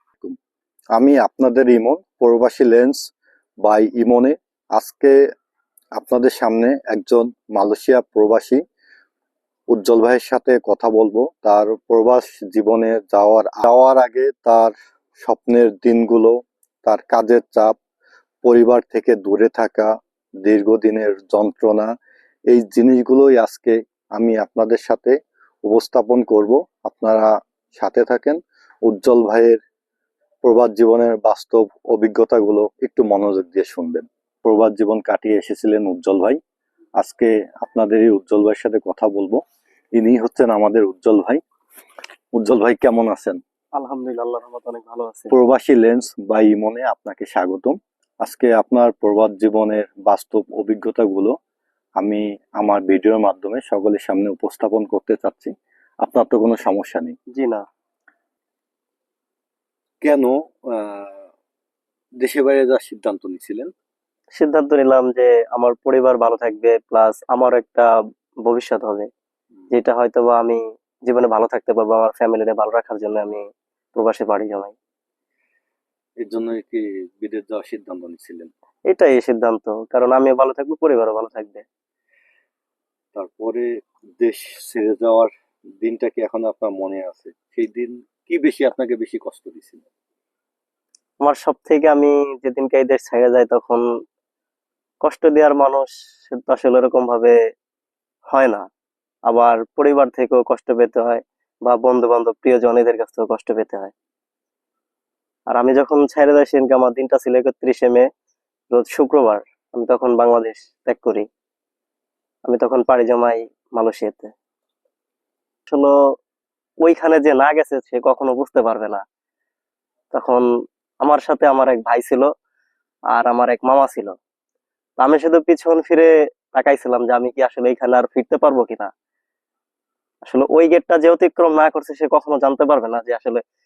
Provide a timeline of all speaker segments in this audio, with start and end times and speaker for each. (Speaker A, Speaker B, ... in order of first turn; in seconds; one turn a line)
Speaker A: 0.9-3.0
Speaker A: 3.6-5.1
Speaker A: 5.9-8.6
Speaker A: 9.7-17.8
Speaker A: 18.4-19.9
Speaker A: 20.4-21.9
Speaker A: 22.5-25.1
Speaker A: 25.7-29.6
Speaker A: 30.4-36.4
Speaker A: 37.0-39.4
Speaker A: 39.9-41.4
Speaker A: 42.4-43.4
Speaker B: 43.8-45.3
Speaker A: 45.3-51.3
Speaker A: 52.0-57.1
Speaker B: 57.3-57.6
Speaker A: 60.0-61.3
Speaker A: 62.2-63.7
Speaker B: 64.3-67.9
Speaker B: 68.4-69.1
Speaker B: 69.7-74.7
Speaker A: 76.2-78.5
Speaker B: 78.9-81.6
Speaker A: 83.1-83.7
Speaker A: 84.2-89.9
Speaker B: 91.2-93.8
Speaker B: 95.0-97.4
Speaker B: 98.3-98.7
Speaker B: 99.3-103.9
Speaker B: 105.5-108.1
Speaker B: 108.7-111.2
Speaker B: 112.5-114.3
Speaker B: 115.7-116.0
Speaker B: 116.8-119.0
Speaker B: 120.1-120.5
Speaker B: 121.0-122.3
Speaker B: 123.1-124.1
Speaker B: 125.0-128.9
Speaker B: 130.2-133.4